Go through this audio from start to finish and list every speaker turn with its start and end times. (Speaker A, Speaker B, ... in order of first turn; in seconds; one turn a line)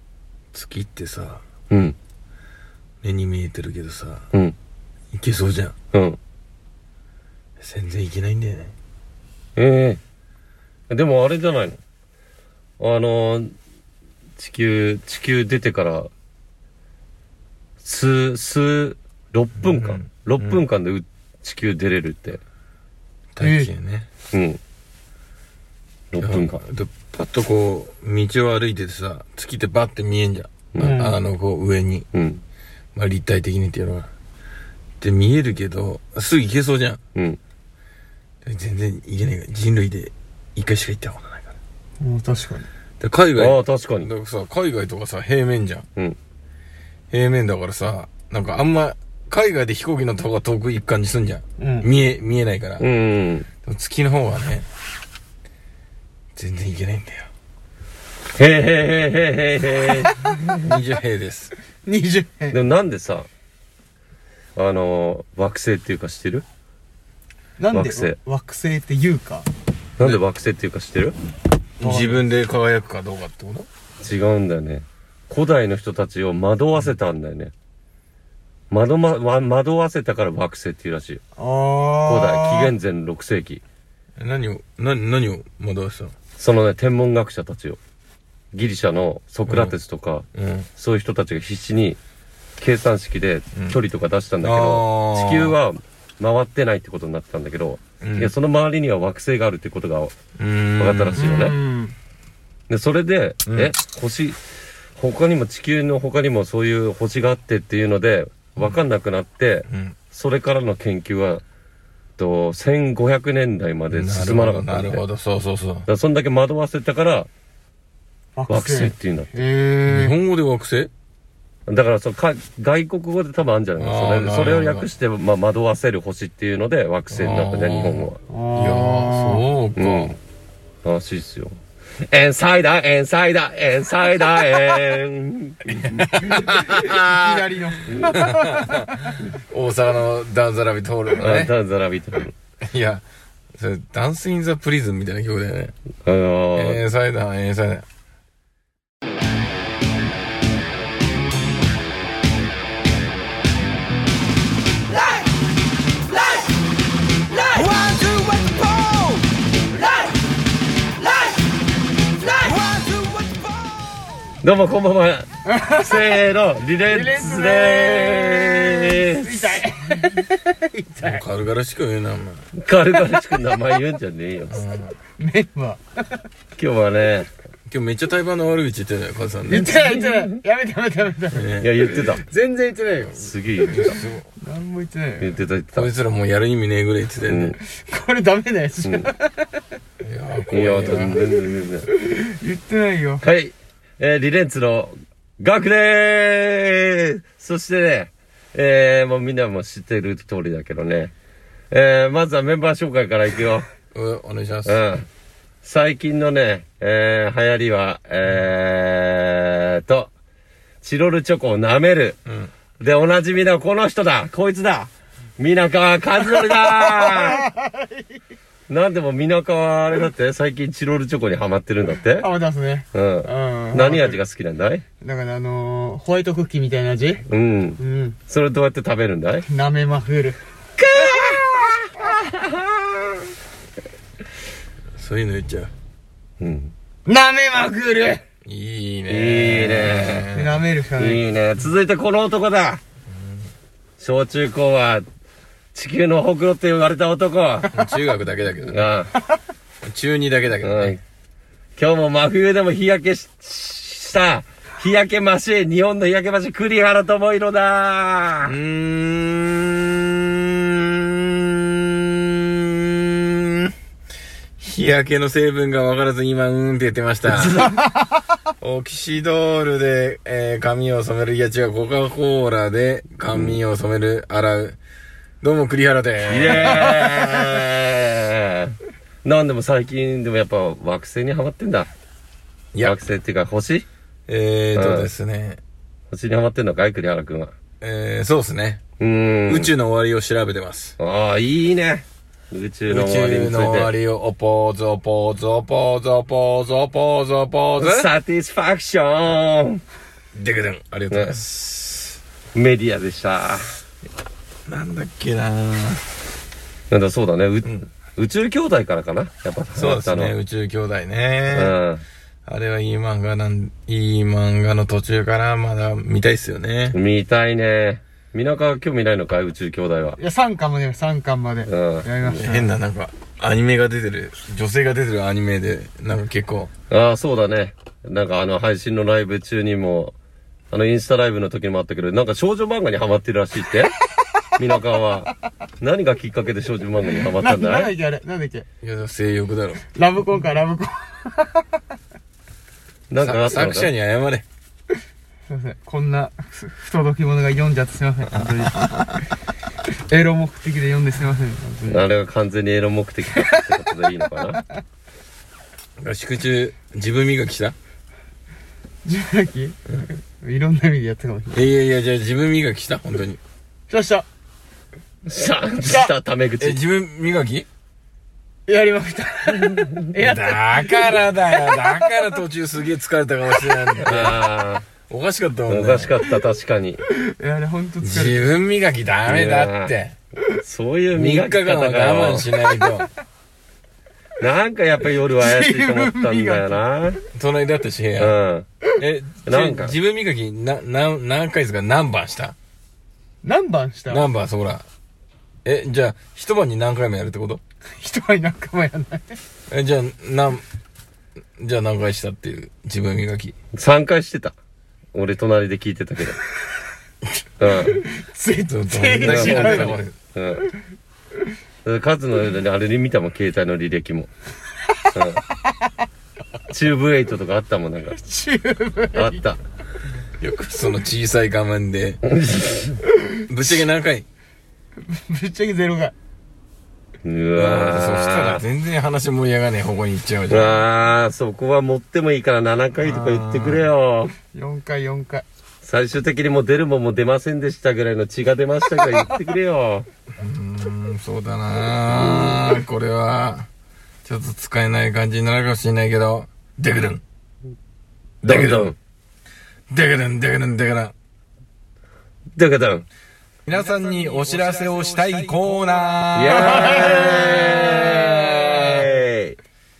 Speaker A: 0.5-1.4
Speaker B: 1.7-2.0
Speaker A: 3.0-4.3
Speaker A: 5.1-5.7
Speaker B: 5.9-6.2
Speaker A: 7.6-8.7
Speaker B: 9.6-10.0
Speaker B: 10.9-11.8
Speaker B: 12.8-13.5
Speaker B: 14.4-16.1
Speaker B: 17.8-22.4
Speaker A: 19.6-20.6
Speaker A: 23.4-24.1
Speaker C: 23.4-23.7
Speaker B: 24.3-24.6
Speaker B: 26.1-26.6
Speaker A: 26.2-32.1
Speaker C: 30.8-31.2
Speaker B: 32.1-32.4
Speaker A: 33.0-34.1
Speaker A: 35.0-37.0
Speaker A: 38.4-41.5
Speaker C: 42.0-42.7
Speaker A: 43.0-45.9
Speaker B: 43.4-44.1
Speaker A: 47.1-52.9
Speaker C: 51.6-51.9
Speaker B: 52.8-53.5
Speaker A: 53.6-54.7
Speaker A: 56.4-57.3
Speaker B: 58.4-60.7
Speaker A: 60.6-61.5
Speaker C: 61.9-62.6
Speaker B: 62.5-63.3
Speaker B: 64.6-66.5
Speaker C: 67.6-69.5
Speaker B: 67.7-68.2
Speaker B: 70.0-71.2
Speaker A: 71.8-73.7
Speaker C: 71.8-72.2
Speaker B: 74.0-77.5
Speaker B: 78.7-81.2
Speaker C: 81.4-82.7
Speaker B: 82.1-83.6
Speaker A: 84.2-86.2
Speaker B: 86.4-87.8
Speaker B: 88.5-92.0
Speaker A: 89.5-89.8
Speaker A: 90.3-90.7
Speaker B: 92.6-100.1
Speaker A: 94.4-95.5
Speaker A: 98.0-98.3
Speaker A: 100.4-101.3
Speaker B: 100.8-101.5
Speaker C: 101.2-102.0
Speaker B: 102.7-104.4
Speaker A: 103.5-103.7
Speaker B: 105.0-111.4
Speaker A: 109.7-110.0
Speaker B: 112.2-115.0
Speaker A: 113.9-115.9
Speaker B: 115.9-117.3
Speaker C: 118.4-120.2
Speaker B: 118.5-119.4
Speaker A: 119.9-120.9
Speaker B: 121.7-128.2
Speaker A: 123.8-124.9
Speaker A: 127.1-130.2
Speaker C: 128.3-129.4
Speaker B: 129.8-130.2
Speaker B: 130.8-131.6
Speaker B: 132.1-136.3
Speaker A: 135.7-137.6
Speaker C: 136.2-139.2
Speaker B: 137.9-138.3
Speaker A: 138.2-141.5
Speaker B: 141.2-142.3
Speaker A: 142.6-143.0
Speaker A: 143.6-145.7
Speaker B: 146.1-146.9
Speaker A: 146.6-147.8
Speaker C: 157.3-158.7
Speaker A: 157.6-159.2
Speaker C: 159.7-160.2
Speaker C: 160.8-163.4
Speaker B: 164.4-169.6
Speaker C: 165.5-166.1
Speaker C: 166.9-171.2
Speaker A: 171.0-172.4
Speaker B: 172.6-174.6
Speaker A: 174.5-175.0
Speaker C: 175.2-176.3
Speaker B: 176.6-177.3
Speaker A: 177.7-179.7
Speaker C: 179.5-183.3
Speaker B: 179.6-180.4
Speaker A: 181.3-181.7
Speaker B: 181.6-182.2
Speaker B: 183.2-184.0
Speaker A: 183.7-184.2
Speaker C: 184.4-185.3
Speaker B: 185.2-185.9
Speaker A: 185.8-187.6
Speaker B: 187.3-187.6
Speaker C: 187.6-189.7
Speaker A: 190.0-191.2
Speaker B: 190.5-191.9
Speaker C: 191.9-193.2
Speaker B: 193.2-201.1
Speaker B: 201.7-203.7
Speaker A: 203.9-204.8
Speaker B: 204.7-205.1
Speaker B: 205.6-210.1
Speaker B: 210.8-212.2
Speaker B: 212.8-217.5
Speaker C: 216.8-218.0
Speaker B: 218.7-222.3
Speaker C: 222.2-224.2
Speaker B: 222.9-224.8
Speaker C: 225.0-227.2
Speaker B: 227.3-229.5
Speaker C: 227.8-228.2
Speaker C: 229.5-230.4
Speaker B: 230.8-232.9
Speaker A: 235.0-235.7
Speaker B: 236.4-236.7
Speaker C: 237.1-238.2
Speaker A: 238.4-240.6
Speaker B: 239.1-240.3
Speaker C: 240.3-241.3
Speaker B: 241.0-242.8
Speaker A: 243.1-243.4
Speaker B: 244.0-245.1
Speaker B: 245.7-247.7
Speaker A: 247.7-248.8
Speaker B: 248.7-249.1
Speaker A: 249.8-250.9
Speaker B: 250.6-251.0
Speaker B: 251.8-258.5
Speaker A: 258.5-263.7
Speaker A: 264.6-267.7
Speaker B: 267.3-267.7
Speaker C: 267.6-268.2
Speaker A: 268.6-274.8
Speaker B: 273.3-273.6
Speaker A: 275.4-277.5
Speaker B: 276.3-281.9
Speaker B: 282.8-283.9
Speaker A: 284.3-285.6
Speaker B: 284.8-285.1
Speaker B: 286.1-287.5
Speaker A: 287.8-288.8
Speaker B: 289.0-289.7
Speaker A: 289.5-291.0
Speaker B: 291.0-293.9
Speaker A: 292.9-298.1
Speaker B: 297.8-299.8
Speaker A: 300.3-302.2
Speaker B: 301.1-301.4
Speaker B: 302.6-303.7
Speaker A: 304.7-306.0
Speaker B: 306.9-310.3
Speaker A: 309.8-311.8
Speaker B: 311.5-312.0
Speaker A: 312.5-317.0
Speaker B: 316.9-320.2
Speaker C: 320.2-322.7
Speaker B: 321.7-322.1
Speaker A: 322.3-326.7
Speaker B: 326.9-330.1
Speaker B: 330.7-333.9
Speaker B: 334.6-337.9
Speaker C: 337.2-338.7
Speaker A: 338.8-339.8
Speaker C: 339.9-341.8
Speaker B: 343.1-343.9
Speaker A: 343.2-344.4
Speaker C: 345.5-348.9
Speaker A: 348.3-349.2
Speaker C: 350.1-352.1
Speaker B: 351.9-354.6
Speaker C: 353.4-353.6
Speaker A: 356.0-357.8
Speaker C: 359.1-361.6
Speaker A: 361.5-363.4
Speaker C: 363.9-364.3
Speaker B: 365.3-366.8
Speaker C: 365.8-366.1
Speaker A: 366.6-367.7
Speaker C: 368.7-372.4
Speaker A: 370.2-374.4
Speaker B: 374.0-374.9
Speaker A: 375.1-376.1
Speaker B: 375.7-377.0
Speaker C: 377.1-378.5
Speaker A: 378.0-380.1
Speaker B: 379.3-379.9
Speaker B: 380.5-382.5
Speaker A: 381.1-383.1
Speaker B: 384.4-387.2
Speaker C: 385.4-386.8
Speaker A: 387.3-388.3
Speaker B: 388.2-388.7
Speaker A: 389.0-392.6
Speaker B: 389.4-389.9
Speaker C: 393.4-394.3
Speaker A: 394.1-394.9
Speaker A: 395.6-397.6
Speaker C: 398.0-399.4
Speaker A: 399.7-400.6
Speaker A: 401.6-403.6
Speaker B: 403.7-404.6
Speaker B: 405.1-406.4
Speaker B: 407.6-408.0
Speaker C: 407.9-410.0
Speaker A: 408.7-410.1
Speaker B: 409.2-410.7
Speaker B: 411.9-414.3
Speaker B: 415.1-415.4
Speaker C: 415.6-415.9
Speaker B: 416.7-418.2
Speaker C: 418.2-419.4
Speaker B: 419.1-419.6
Speaker A: 420.4-422.2
Speaker B: 422.2-423.0
Speaker A: 423.5-424.3
Speaker C: 425.0-426.1
Speaker B: 427.2-428.6
Speaker A: 427.6-430.9
Speaker B: 430.5-434.4
Speaker A: 433.0-433.9
Speaker C: 434.5-435.5
Speaker B: 435.8-440.1
Speaker A: 440.4-443.7
Speaker B: 442.1-442.5
Speaker A: 444.2-447.2
Speaker A: 448.4-448.9
Speaker B: 448.4-448.9
Speaker A: 449.9-451.1
Speaker B: 452.6-453.1
Speaker A: 453.7-459.1
Speaker C: 453.7-458.2
Speaker B: 456.3-459.6